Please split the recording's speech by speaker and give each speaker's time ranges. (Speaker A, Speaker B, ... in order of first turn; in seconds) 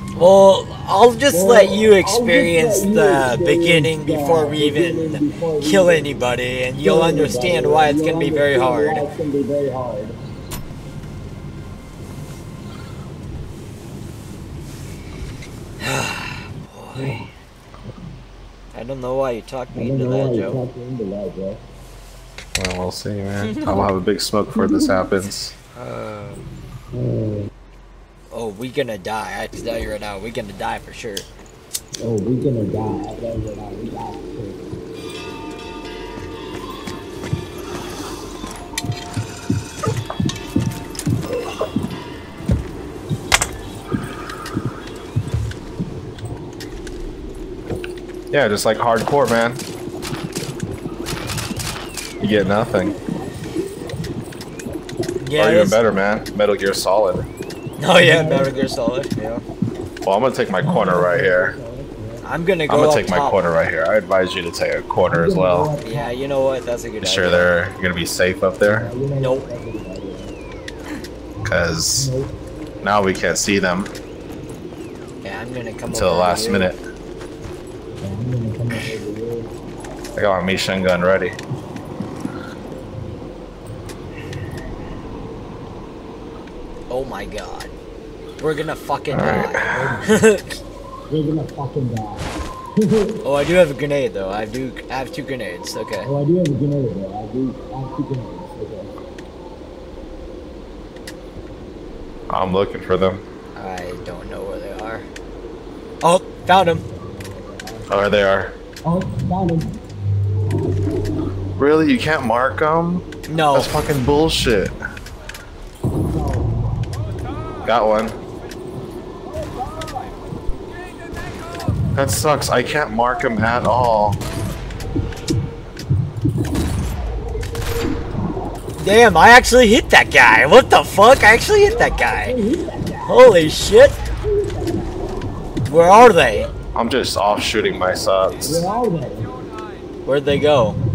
Speaker A: 0.1-9.1, 15.8-17.3, 18.7-20.6, 25.7-26.4, 28.3-31.3, 55.2-55.8, 57.8-59.4, 62.2-63.4, 65.8-67.5, 69.2-69.5, 75.2-76.7, 86.9-87.7, 88.4-90.6, 93.2-96.1, 103.5-105.1, 106.0-106.8, 113.3-113.7, 128.8-132.4, 133.1-134.0, 135.6-136.5, 140.1-140.8
Speaker B: 1.3-6.1, 6.8-10.2, 19.7-21.6, 26.9-27.5, 32.0-34.7, 58.0-58.5, 60.6-62.2, 65.1-66.1, 68.7-70.3, 71.9-72.3, 78.0-79.5, 89.7-90.1, 91.1-93.2, 96.0-98.9, 108.8-109.7, 116.0-116.5, 131.7-133.3, 134.2-135.1, 138.4-139.3
Speaker C: 22.6-25.5, 48.3-49.6, 52.2-53.0, 55.4-57.3, 60.0-61.5, 62.7-65.7, 67.0-68.9, 71.4-72.1, 72.8-73.9, 75.9-76.8, 80.1-81.4, 89.1-90.0, 102.3-103.2, 107.9-108.6, 111.6-114.8, 117.6-118.2, 122.0-124.2, 136.7-138.7